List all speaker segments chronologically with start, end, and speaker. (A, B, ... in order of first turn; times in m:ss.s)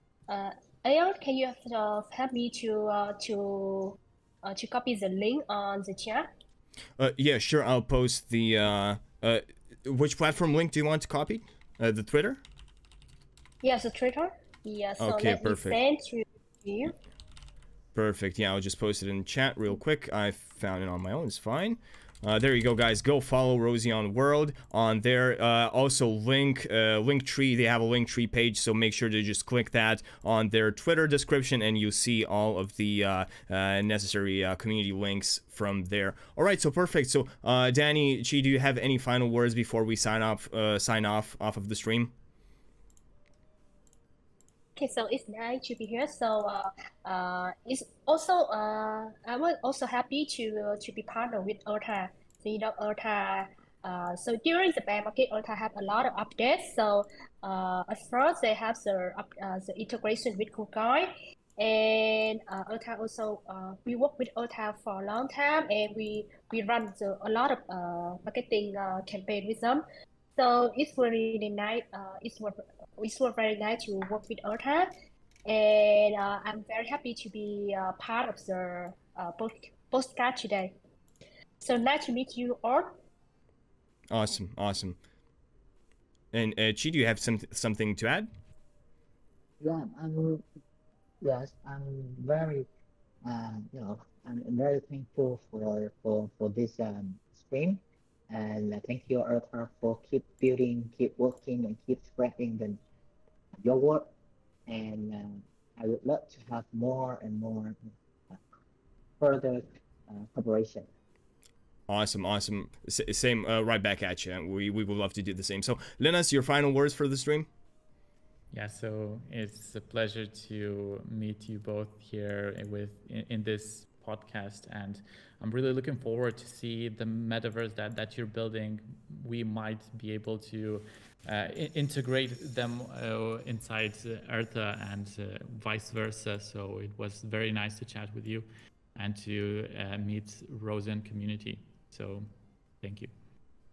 0:00.3-0:06.3 A
0:07.0-0:12.4 B
0:13.6-0:17.0 A
0:15.0-0:15.8 B
0:18.0-0:42.1 B
0:44.8-1:09.8 A
1:10.4-1:14.9 A
1:15.5-1:20.8 A
1:21.6-1:23.0 A
1:24.1-1:25.0 B
1:26.3-1:28.3 B
1:29.6-1:30.4 C
1:31.2-1:32.7 C
1:33.2-1:42.8 C
1:43.6-1:44.1 C
1:44.7-1:48.4 C
1:49.2-1:50.9 C
1:51.9-1:57.5 B
1:58.5-2:23.1 D